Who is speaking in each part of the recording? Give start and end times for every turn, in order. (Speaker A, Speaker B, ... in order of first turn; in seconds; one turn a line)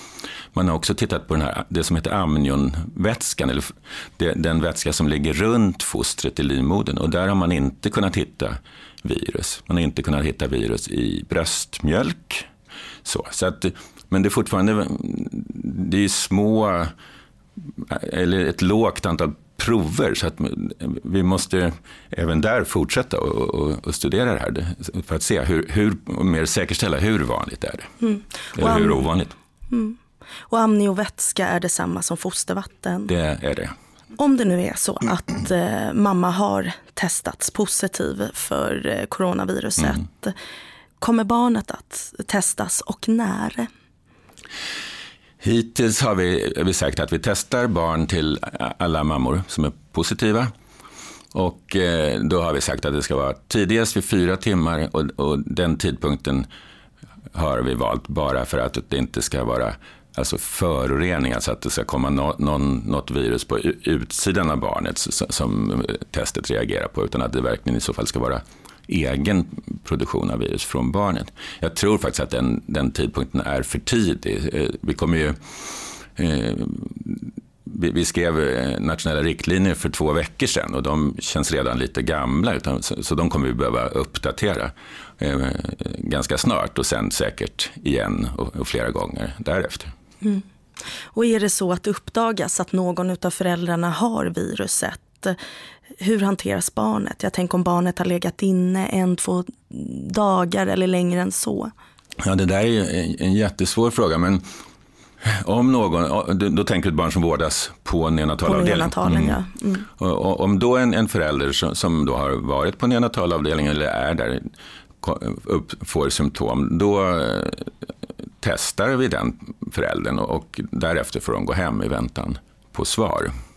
Speaker A: 0.5-12.5
Speaker A: 13.0-16.9
Speaker A: 17.6-27.9
Speaker B: 28.0-29.0
Speaker A: 28.6-29.4
Speaker B: 29.7-30.0
Speaker B: 30.5-33.1
Speaker A: 33.1-33.8
Speaker B: 34.2-40.4
Speaker B: 41.0-43.7
Speaker A: 45.4-50.5
Speaker A: 51.3-56.5
Speaker A: 57.3-89.9
Speaker B: 91.1-95.4
Speaker B: 96.0-101.7
Speaker A: 102.2-104.5
Speaker A: 105.2-114.5
Speaker B: 108.5-109.9
Speaker A: 115.0-117.7
Speaker A: 118.4-123.3